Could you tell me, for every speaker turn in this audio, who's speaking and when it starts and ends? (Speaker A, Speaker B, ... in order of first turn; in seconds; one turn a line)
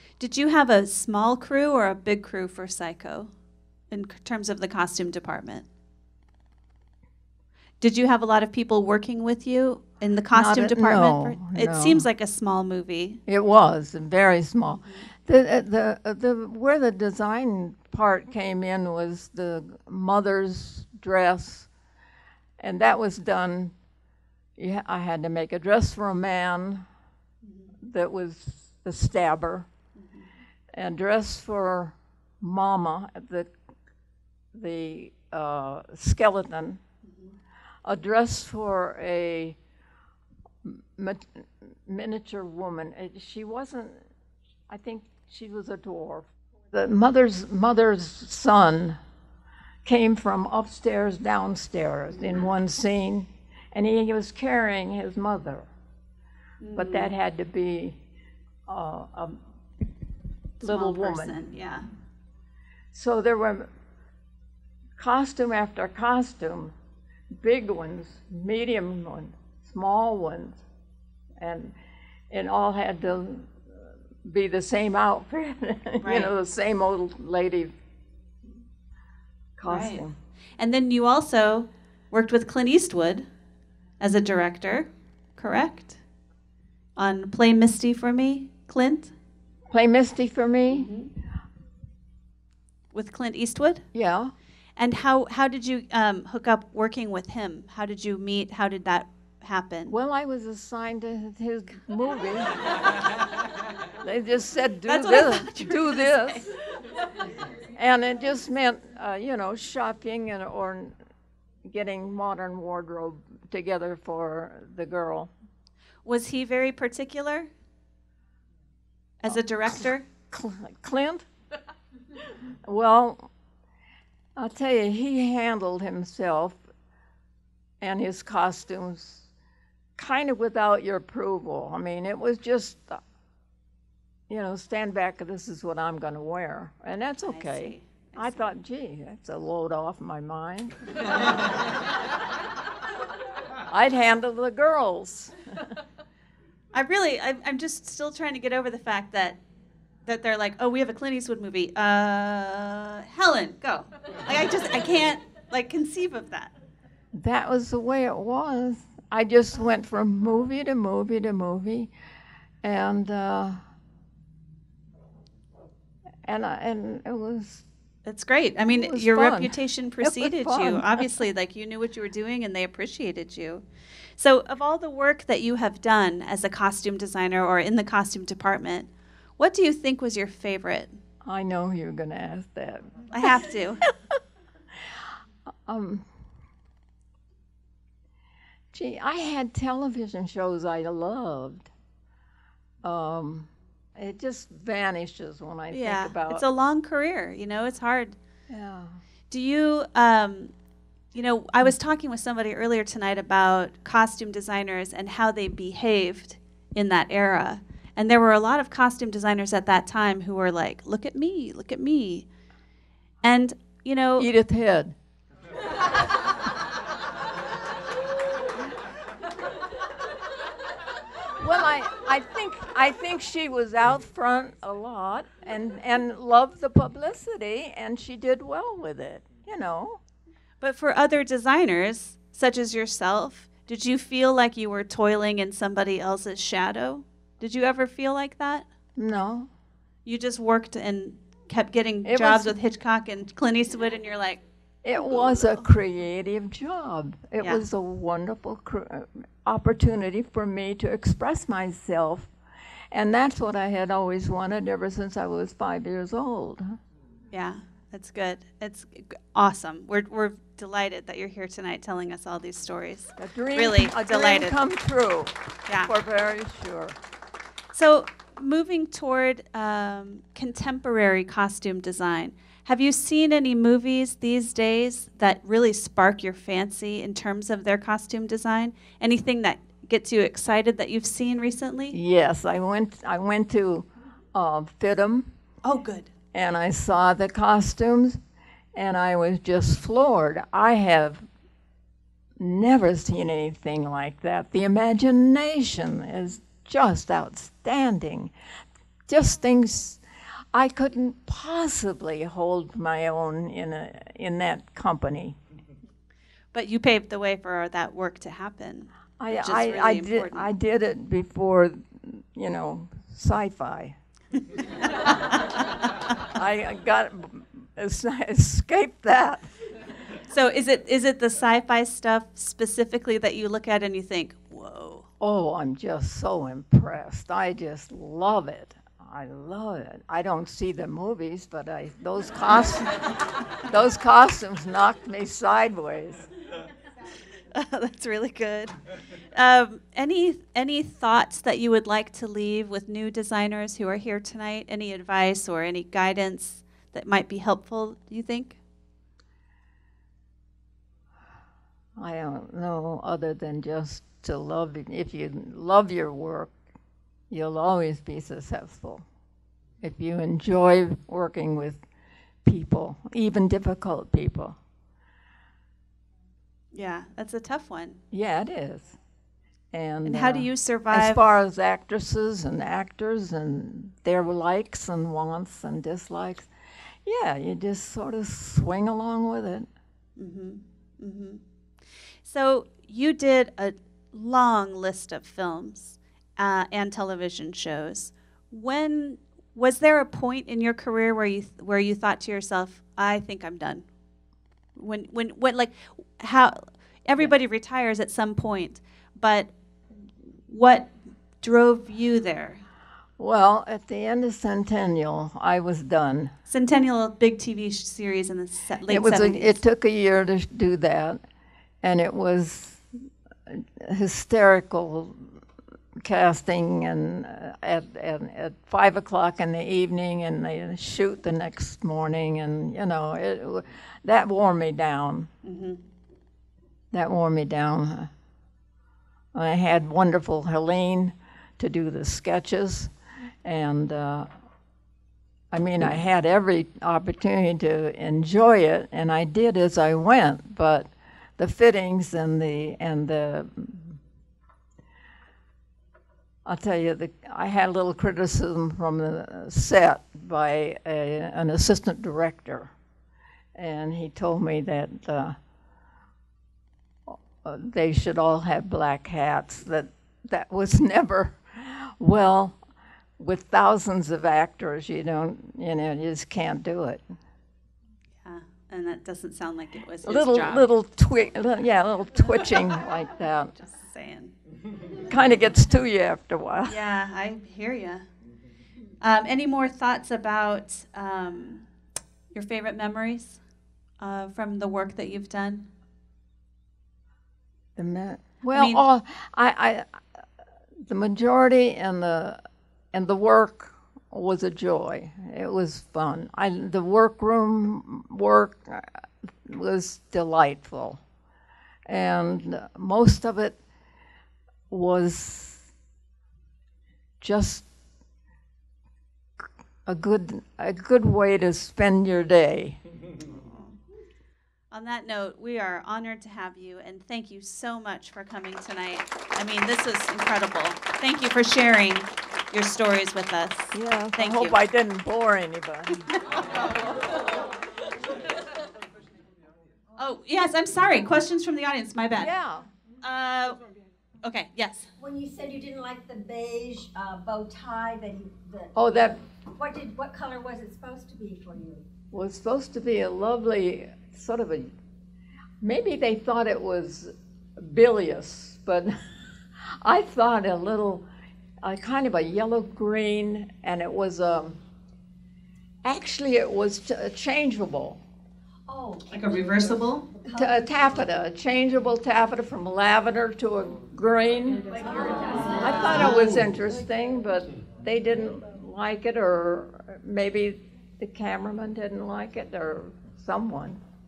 Speaker A: 0.2-3.3
Speaker A: 3.9-5.7
Speaker A: 7.8-13.2
Speaker B: 10.3-12.1
Speaker B: 13.3-21.7
Speaker A: 14.8-15.1
Speaker B: 22.6-23.7
Speaker B: 24.6-26.9
Speaker A: 27.4-27.7
Speaker B: 27.8-29.7
Speaker A: 30.0-30.3
Speaker B: 30.7-33.5
Speaker B: 34.5-36.8
Speaker A: 37.0-37.4
Speaker B: 37.8-39.6
Speaker B: 40.6-44.0
Speaker B: 44.7-49.0
Speaker B: 49.8-55.7
Speaker A: 56.6-57.1
Speaker B: 56.8-58.0
Speaker B: 58.7-59.4
Speaker A: 60.6-61.9
Speaker B: 60.6-61.4
Speaker B: 62.9-63.7
Speaker B: 65.0-66.7
Speaker B: 67.4-70.6
Speaker B: 71.4-71.8
Speaker B: 72.3-77.7
Speaker A: 76.0-76.3
Speaker B: 79.6-80.2
Speaker A: 79.6-80.0
Speaker A: 80.6-83.2
Speaker A: 84.0-86.0
Speaker A: 87.0-89.1
Speaker B: 89.7-90.9
Speaker A: 90.7-91.1
Speaker A: 92.9-93.8
Speaker B: 93.9-94.3
Speaker A: 94.8-99.9
Speaker B: 99.9-103.1
Speaker B: 104.0-106.5
Speaker A: 104.9-106.4
Speaker B: 107.7-110.9
Speaker B: 111.7-115.3
Speaker A: 116.0-117.5
Speaker A: 119.2-120.0
Speaker B: 119.3-121.3
Speaker B: 122.6-123.3
Speaker B: 124.3-126.6
Speaker B: 127.8-129.3
Speaker B: 129.9-133.0
Speaker B: 134.3-141.1
Speaker A: 137.2-138.5
Speaker B: 143.7-145.7
Speaker A: 146.7-149.4
Speaker A: 150.1-156.5
Speaker B: 157.1-161.9
Speaker B: 162.6-163.6
Speaker B: 166.2-167.6
Speaker A: 168.0-173.6
Speaker B: 168.7-171.1
Speaker A: 174.2-180.9
Speaker B: 181.2-184.1
Speaker A: 183.1-183.9
Speaker B: 185.7-186.1
Speaker B: 188.7-191.7
Speaker B: 192.8-196.4
Speaker A: 195.7-198.2
Speaker B: 198.5-199.0
Speaker A: 199.3-200.5
Speaker A: 201.1-212.3
Speaker A: 213.2-214.3
Speaker B: 214.2-214.9
Speaker B: 221.3-230.0
Speaker A: 230.6-238.7
Speaker B: 238.9-239.5
Speaker A: 240.1-244.4
Speaker B: 242.0-242.6
Speaker B: 244.8-252.3
Speaker A: 245.1-245.5
Speaker B: 252.9-256.8
Speaker A: 257.3-264.6
Speaker B: 263.2-266.9
Speaker A: 265.7-265.9
Speaker A: 267.7-282.0
Speaker B: 281.9-285.3
Speaker A: 285.6-286.1
Speaker B: 286.3-288.2
Speaker B: 288.7-291.2
Speaker B: 292.4-298.3
Speaker B: 299.1-300.0
Speaker B: 300.5-305.4
Speaker A: 306.5-310.5
Speaker B: 309.2-313.9
Speaker A: 314.8-315.6
Speaker B: 316.3-319.4
Speaker A: 320.3-325.1
Speaker B: 325.2-333.1
Speaker B: 333.6-336.3
Speaker A: 337.5-338.8
Speaker A: 339.3-348.6
Speaker B: 352.0-356.5
Speaker B: 357.3-359.0
Speaker B: 359.8-361.8
Speaker B: 362.4-364.6
Speaker A: 366.7-368.0
Speaker B: 368.1-369.0
Speaker B: 369.7-376.5
Speaker A: 370.0-371.3
Speaker B: 377.0-379.7
Speaker A: 380.2-381.4
Speaker A: 382.2-393.9
Speaker A: 394.7-399.5
Speaker A: 400.4-402.6
Speaker B: 403.2-406.3
Speaker A: 406.5-409.6
Speaker B: 408.9-411.2
Speaker B: 411.8-412.8
Speaker B: 413.5-415.4
Speaker B: 416.0-425.3
Speaker A: 425.4-425.8
Speaker B: 426.9-428.1
Speaker B: 429.3-432.9
Speaker B: 433.4-434.3
Speaker B: 435.5-444.0
Speaker B: 446.4-452.7
Speaker B: 453.5-455.4
Speaker B: 457.1-462.6
Speaker B: 463.2-467.0
Speaker A: 468.2-470.7
Speaker B: 470.0-473.6
Speaker A: 473.6-474.3
Speaker B: 475.0-476.8
Speaker A: 476.7-478.1
Speaker A: 479.0-481.6
Speaker A: 482.3-483.4
Speaker A: 484.0-485.7
Speaker B: 487.8-490.2
Speaker A: 488.5-488.8
Speaker B: 490.8-492.4
Speaker B: 492.9-501.0
Speaker B: 501.9-503.6
Speaker B: 504.7-505.6
Speaker B: 507.2-507.6
Speaker B: 509.9-512.8
Speaker A: 513.3-513.8
Speaker A: 514.7-524.5
Speaker B: 523.7-526.1
Speaker A: 526.1-526.9
Speaker A: 530.0-532.3
Speaker B: 532.1-532.7
Speaker A: 533.0-533.6
Speaker A: 534.2-534.9
Speaker C: 535.0-538.9
Speaker B: 538.7-539.2
Speaker C: 539.5-541.9
Speaker B: 542.1-544.7
Speaker B: 545.6-548.9
Speaker B: 549.6-551.0
Speaker B: 551.6-554.6
Speaker B: 555.8-558.0
Speaker C: 558.7-561.1
Speaker A: 559.1-560.0
Speaker B: 560.3-564.7
Speaker C: 564.5-566.7
Speaker B: 565.6-573.8
Speaker A: 565.8-566.4